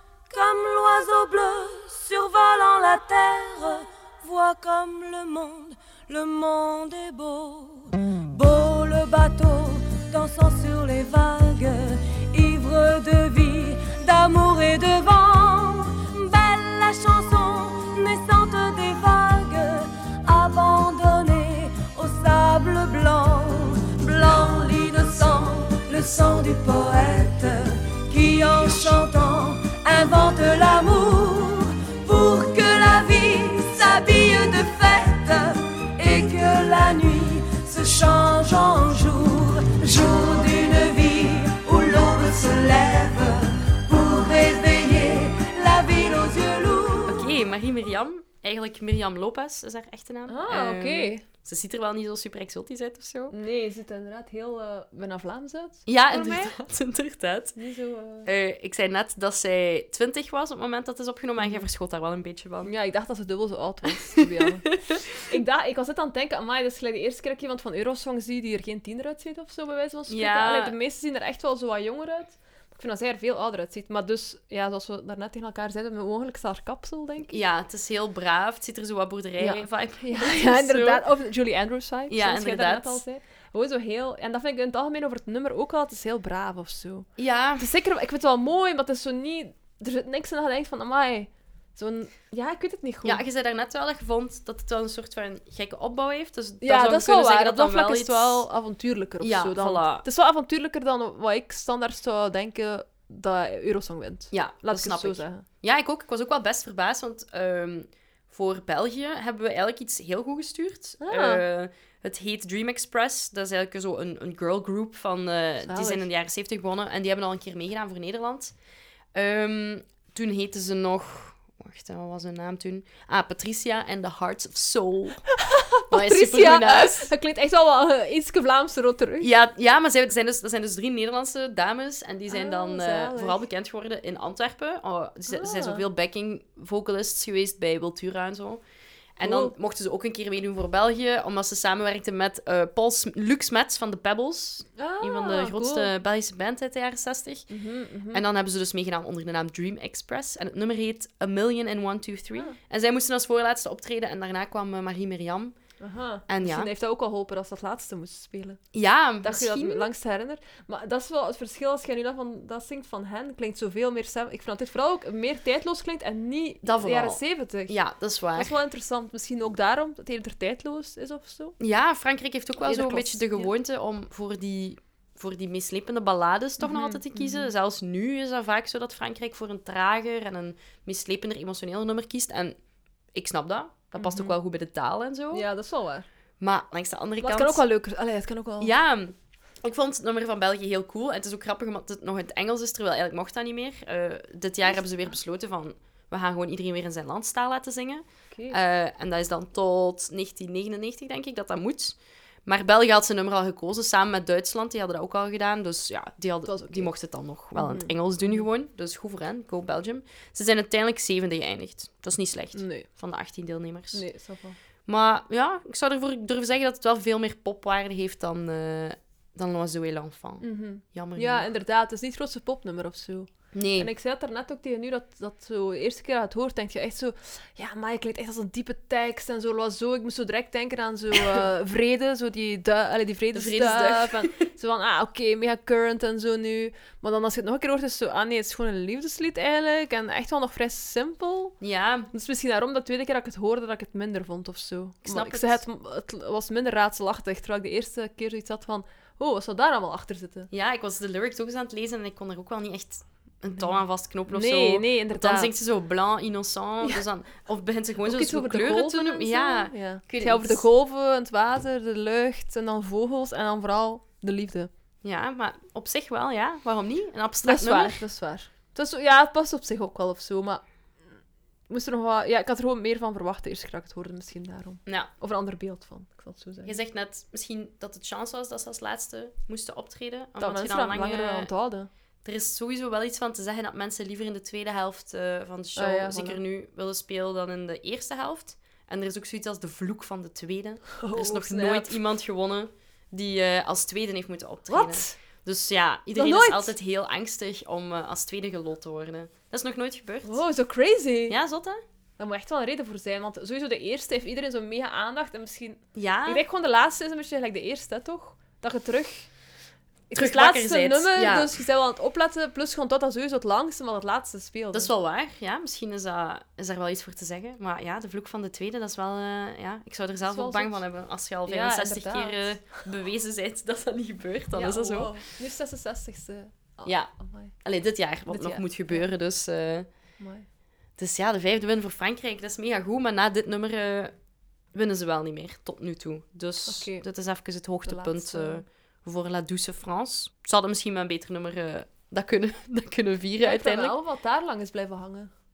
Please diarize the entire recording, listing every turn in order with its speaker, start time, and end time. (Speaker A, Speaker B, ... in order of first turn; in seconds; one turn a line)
Speaker A: 0.3-47.3
Speaker B: 47.1-53.3
Speaker C: 50.3-51.2
Speaker C: 53.3-56.6
Speaker B: 55.9-57.6
Speaker C: 57.6-58.3
Speaker B: 58.2-62.7
Speaker C: 61.4-61.7
Speaker C: 62.6-77.3
Speaker B: 64.2-65.0
Speaker B: 70.1-70.7
Speaker B: 77.3-81.1
Speaker C: 79.4-93.2
Speaker B: 82.1-83.0
Speaker B: 87.2-87.7
Speaker B: 93.0-98.5
Speaker C: 96.6-105.5
Speaker B: 99.2-100.0
Speaker B: 104.3-118.5
Speaker C: 111.0-111.4
Speaker C: 115.7-116.1
Speaker B: 119.1-125.2
Speaker C: 125.4-129.3
Speaker B: 125.9-127.1
Speaker B: 129.2-138.6
Speaker C: 132.3-133.4
Speaker C: 135.3-135.8
Speaker B: 139.2-147.5
Speaker C: 139.2-139.5
Speaker C: 144.8-145.9
Speaker C: 147.5-148.2
Speaker B: 148.1-155.6
Speaker C: 155.8-158.6
Speaker B: 156.3-156.7
Speaker B: 158.7-159.9
Speaker C: 159.2-167.8
Speaker B: 166.6-168.6
Speaker C: 168.3-171.6
Speaker B: 171.6-182.6
Speaker C: 172.6-173.5
Speaker C: 176.6-177.5
Speaker B: 183.1-185.5
Speaker C: 184.0-184.4
Speaker C: 185.3-186.1
Speaker B: 186.4-187.6
Speaker C: 187.2-188.7
Speaker B: 188.6-214.0
Speaker C: 198.3-198.6
Speaker C: 206.5-206.9
Speaker C: 207.6-208.4
Speaker C: 212.5-212.9
Speaker C: 213.9-214.6
Speaker B: 214.9-221.5
Speaker C: 220.4-241.6
Speaker B: 223.5-223.9
Speaker B: 233.3-234.5
Speaker B: 241.6-242.1
Speaker C: 242.1-250.5
Speaker B: 245.0-245.6
Speaker B: 250.5-260.6
Speaker C: 254.3-255.5
Speaker C: 258.0-264.7
Speaker B: 265.0-268.0
Speaker C: 267.4-270.6
Speaker C: 271.7-276.7
Speaker B: 276.6-281.5
Speaker C: 280.4-281.9
Speaker B: 282.2-300.4
Speaker C: 285.8-286.4
Speaker C: 291.0-292.0
Speaker C: 294.7-295.2
Speaker C: 296.1-296.7
Speaker C: 300.2-301.4
Speaker B: 301.3-301.8
Speaker C: 302.2-309.3
Speaker B: 305.9-306.4
Speaker C: 310.1-314.9
Speaker B: 310.1-311.5
Speaker B: 314.7-325.2
Speaker C: 320.2-320.8
Speaker C: 321.5-322.6
Speaker C: 324.5-327.6
Speaker B: 326.9-327.1
Speaker B: 327.6-329.9
Speaker C: 328.3-329.1
Speaker C: 330.2-330.5
Speaker B: 331.0-334.1
Speaker B: 334.7-344.0
Speaker C: 336.7-337.1
Speaker C: 337.9-338.6
Speaker C: 343.4-345.3